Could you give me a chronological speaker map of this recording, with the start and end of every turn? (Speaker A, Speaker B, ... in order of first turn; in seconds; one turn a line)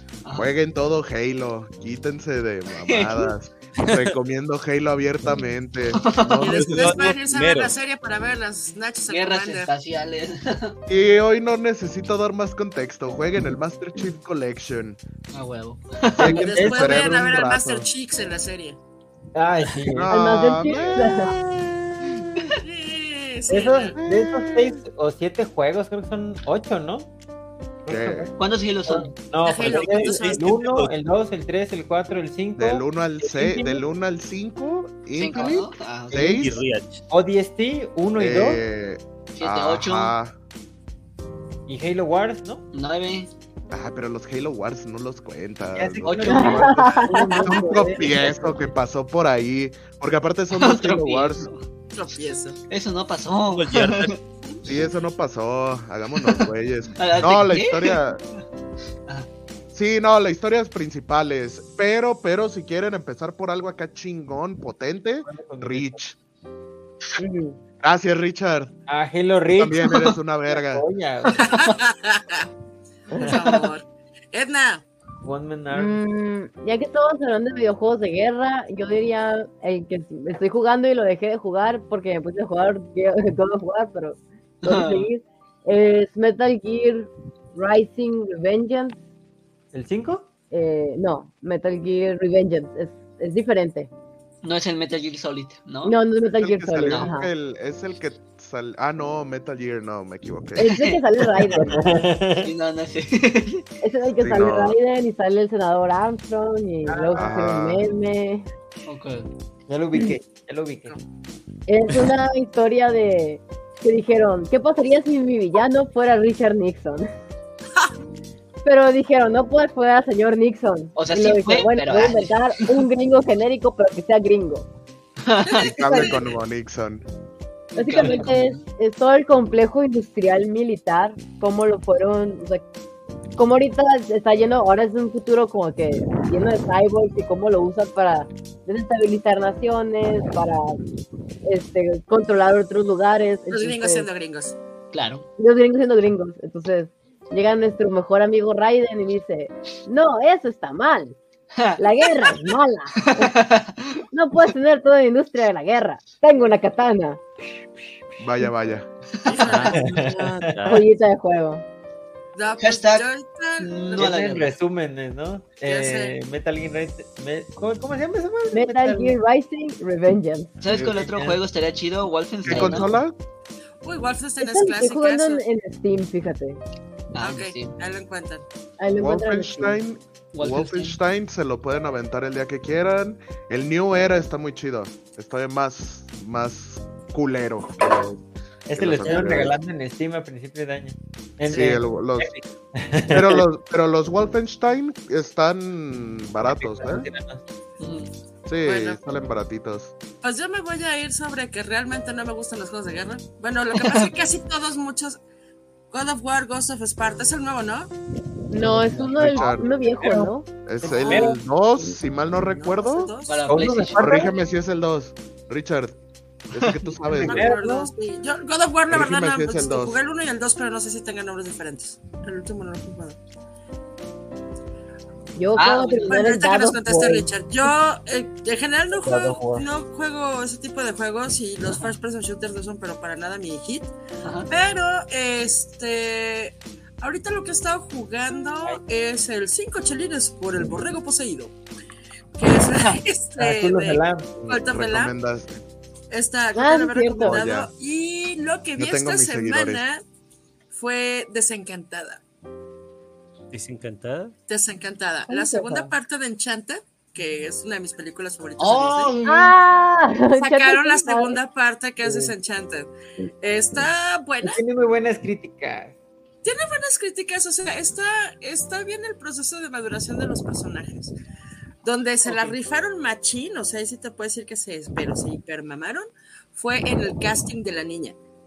Speaker A: 0.2-0.5
Speaker B: 0.3-7.2
Speaker A: 2.8-3.3
Speaker C: 3.8-4.1
Speaker A: 6.0-6.4
Speaker C: 6.4-7.7
Speaker D: 6.4-9.7
Speaker A: 9.1-10.8
Speaker B: 10.9-15.0
Speaker A: 15.3-16.4
Speaker B: 16.2-17.9
Speaker E: 16.2-17.1
Speaker D: 16.3-18.8
Speaker E: 19.3-20.1
Speaker B: 19.9-22.2
Speaker F: 20.1-21.3
Speaker D: 22.5-24.0
Speaker E: 23.5-27.1
Speaker B: 24.0-24.8
Speaker E: 27.8-33.8
Speaker B: 27.9-28.3
Speaker A: 28.4-29.1
Speaker D: 29.4-30.5
Speaker C: 29.6-30.9
Speaker B: 32.6-36.6
Speaker A: 35.2-36.4
Speaker C: 36.4-37.0
Speaker E: 37.1-38.6
Speaker B: 38.2-40.3
Speaker A: 39.4-40.1
Speaker E: 41.7-42.6
Speaker A: 42.7-43.3
Speaker B: 43.7-51.5
Speaker E: 45.7-48.7
Speaker A: 46.0-46.9
Speaker F: 46.3-47.9
Speaker A: 50.5-51.6
Speaker D: 51.9-52.6
Speaker A: 52.7-54.2
Speaker C: 53.5-54.1
Speaker B: 54.6-58.2
Speaker A: 57.0-58.0
Speaker B: 59.7-66.1
Speaker E: 65.2-66.0
Speaker F: 67.2-67.6
Speaker B: 67.8-68.7
Speaker E: 68.9-69.8
Speaker B: 69.6-70.8
Speaker A: 69.9-70.2
Speaker E: 70.5-71.4
Speaker A: 71.3-71.8
Speaker D: 71.4-72.5
Speaker D: 73.1-74.8
Speaker A: 73.3-73.7
Speaker E: 75.2-76.0
Speaker F: 75.7-89.0
Speaker A: 84.6-85.1
Speaker E: 89.7-90.3
Speaker F: 90.5-93.9
Speaker A: 94.4-96.0
Speaker F: 95.8-97.3
Speaker B: 96.4-100.7
Speaker A: 96.8-97.1
Speaker A: 100.6-101.8
Speaker F: 100.6-101.8
Speaker E: 101.7-102.5
Speaker A: 102.4-103.7
Speaker F: 103.8-108.5
Speaker B: 104.2-104.8
Speaker E: 106.8-107.3
Speaker B: 107.1-107.9
Speaker A: 108.9-109.3
Speaker E: 109.7-110.9
Speaker F: 111.7-117.1
Speaker F: 118.6-124.7
Speaker A: 121.0-122.8
Speaker A: 125.2-126.1
Speaker D: 125.4-126.2
Speaker B: 125.6-127.0
Speaker F: 125.8-126.1
Speaker A: 127.7-128.6
Speaker F: 127.8-132.6
Speaker F: 133.3-140.8
Speaker F: 141.4-144.1
Speaker D: 143.5-144.5
Speaker A: 144.9-145.2
Speaker F: 145.4-151.2
Speaker A: 151.6-154.0
Speaker F: 151.8-153.3
Speaker F: 154.1-157.2
Speaker B: 158.2-158.9
Speaker D: 159.2-160.3
Speaker C: 159.4-160.8
Speaker E: 159.7-160.8
Speaker F: 160.6-161.6
Speaker D: 162.3-164.1
Speaker A: 162.6-163.1
Speaker A: 163.6-164.5
Speaker E: 163.6-169.2
Speaker D: 165.7-166.1
Speaker F: 168.5-170.6
Speaker A: 170.6-173.0
Speaker B: 170.7-171.1
Speaker E: 170.9-171.4
Speaker B: 172.4-173.1
Speaker E: 172.5-173.0
Speaker D: 173.8-175.4
Speaker F: 174.4-176.6
Speaker A: 177.1-177.8
Speaker D: 177.2-178.4
Speaker F: 178.8-179.8
Speaker B: 179.0-188.2
Speaker A: 180.3-181.0
Speaker E: 188.7-193.4
Speaker B: 188.7-189.6
Speaker B: 191.5-192.3
Speaker B: 193.1-197.1
Speaker E: 196.4-197.4
Speaker A: 197.8-198.1
Speaker B: 198.4-199.9
Speaker D: 198.6-199.0
Speaker D: 200.2-205.2
Speaker A: 203.7-204.1
Speaker D: 205.9-207.9
Speaker F: 208.5-210.5
Speaker E: 208.6-210.3
Speaker B: 209.1-209.7
Speaker B: 210.6-213.1
Speaker E: 210.8-211.4
Speaker D: 210.8-211.3
Speaker D: 212.3-213.4
Speaker A: 213.3-214.1
Speaker E: 213.5-214.3
Speaker B: 213.9-215.9
Speaker B: 216.5-217.5
Speaker A: 216.6-216.9
Speaker E: 217.1-217.9
Speaker D: 217.2-223.2
Speaker B: 218.9-220.0
Speaker F: 225.3-227.3
Speaker A: 225.6-226.2
Speaker D: 226.1-233.9
Speaker E: 229.0-229.6
Speaker A: 231.7-231.9
Speaker A: 234.2-234.5
Speaker D: 234.5-241.5
Speaker D: 242.4-245.1
Speaker E: 243.4-244.3
Speaker B: 244.3-245.5
Speaker D: 246.1-250.0
Speaker F: 246.5-247.4
Speaker B: 247.2-247.7
Speaker B: 248.8-249.8
Speaker D: 250.7-252.2
Speaker C: 253.5-254.3
Speaker D: 254.5-259.1
Speaker F: 255.3-255.9
Speaker A: 258.6-259.2
Speaker E: 259.1-259.5
Speaker F: 259.2-261.4
Speaker D: 260.4-264.6
Speaker E: 262.0-262.3
Speaker E: 264.4-265.9
Speaker D: 266.4-271.1
Speaker D: 271.8-278.1
Speaker A: 272.2-272.5